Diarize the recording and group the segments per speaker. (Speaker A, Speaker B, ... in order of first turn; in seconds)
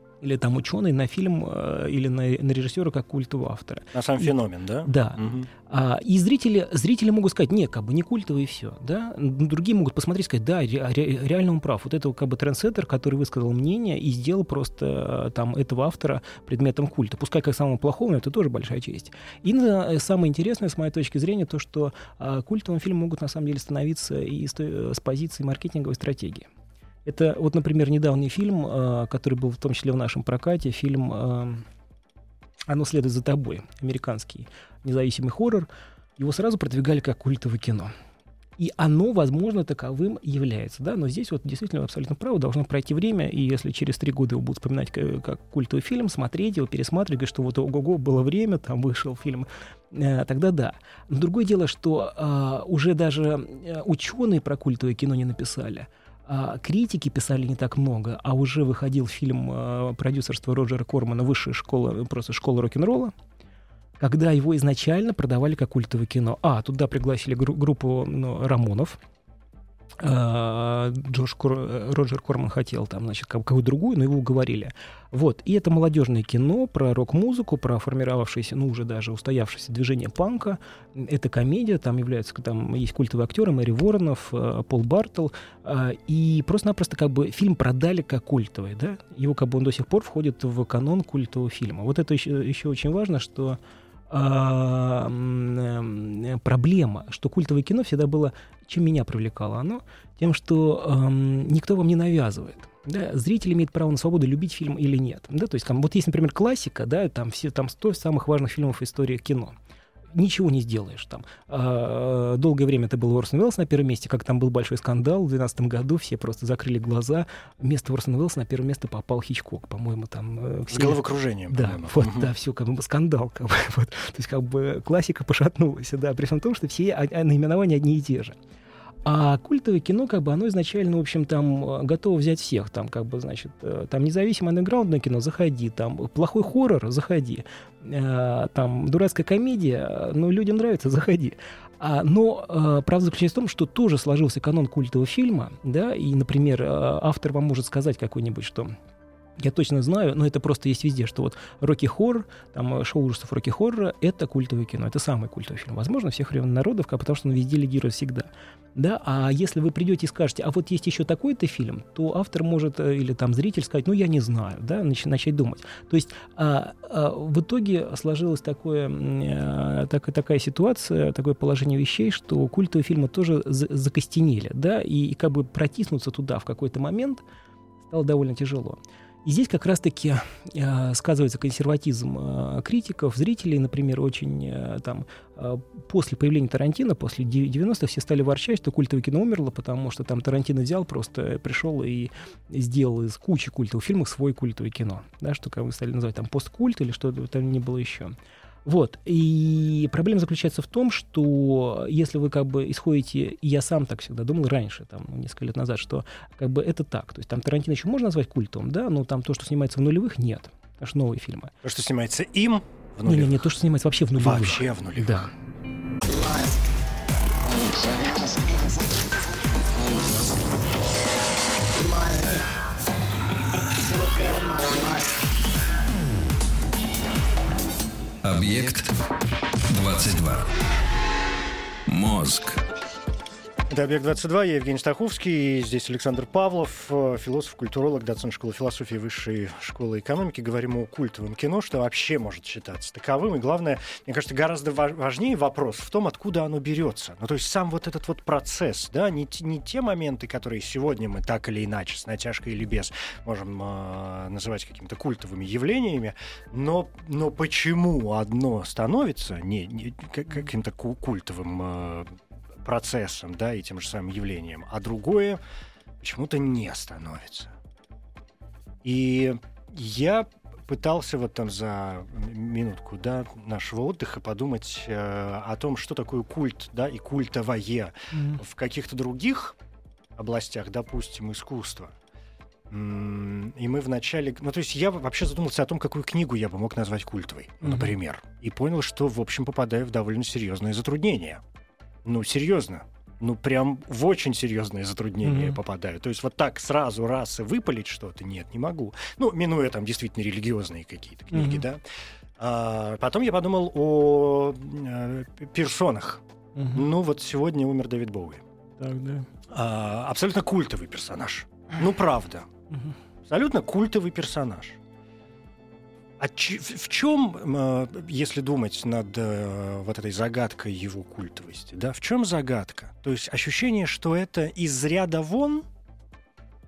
Speaker A: 0.2-4.3, 4.8-26.5, 27.1-31.6, 32.7-37.9, 38.6-63.1, 64.0-69.0, 70.0-109.5, 110.1-128.3, 129.1-148.7, 149.4-177.2, 177.9-211.5, 213.1-215.3, 278.1-278.4, 287.6-287.9, 295.2-295.6, 301.3-301.6, 306.6-306.9, 308.8-309.3
Speaker B: 3.9-5.5, 120.7-122.3, 211.6-213.5, 214.2-215.3, 233.7-265.4, 266.0-267.5, 268.8-279.6, 280.2-281.9, 282.7-291.4, 292.0-301.8, 302.4-308.4, 309.5-312.5, 313.3-314.8, 316.2-325.7
Speaker C: 228.2-228.9, 229.7-230.5, 231.9-232.6